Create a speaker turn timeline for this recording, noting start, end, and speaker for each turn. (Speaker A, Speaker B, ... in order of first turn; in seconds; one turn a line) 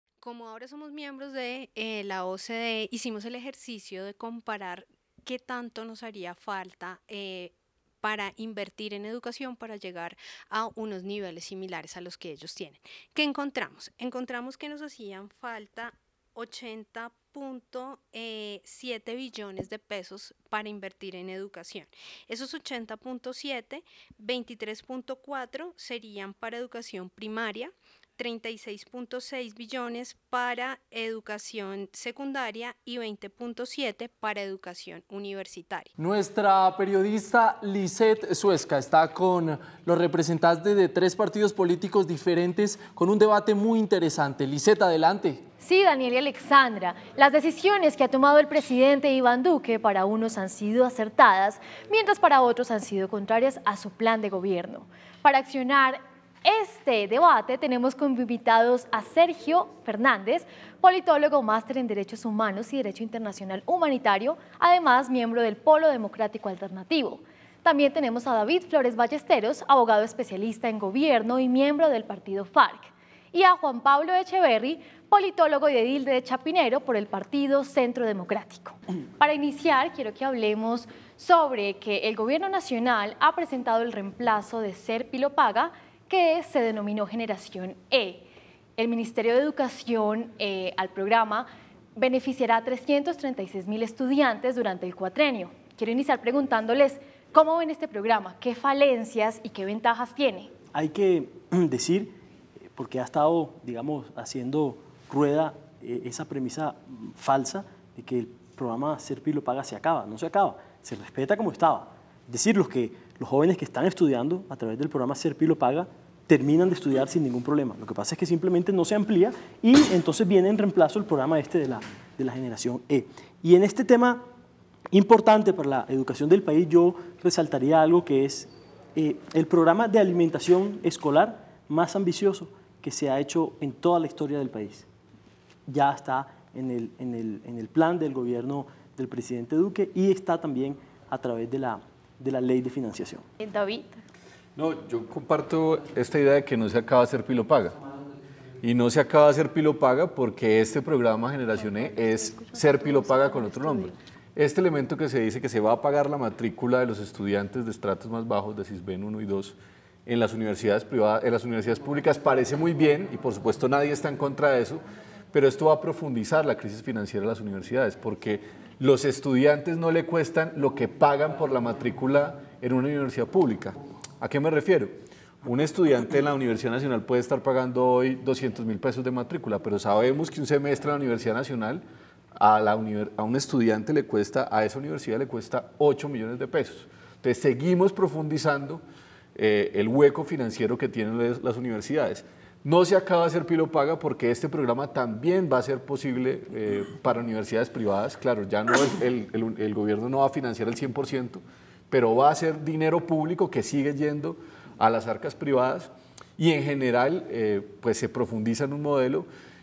Speaker A: 0.2-35.9
Speaker B: 36.0-45.5
Speaker C: 45.6-100.5
Speaker D: 100.7-102.2
Speaker D: 102.7-124.3
Speaker D: 124.9-134.9
Speaker D: 135.7-143.3
Speaker C: 143.4-144.0
Speaker E: 144.6-147.8
Speaker E: 148.6-181.8
Speaker C: 151.6-153.9
Speaker E: 182.4-188.8
Speaker E: 189.3-209.3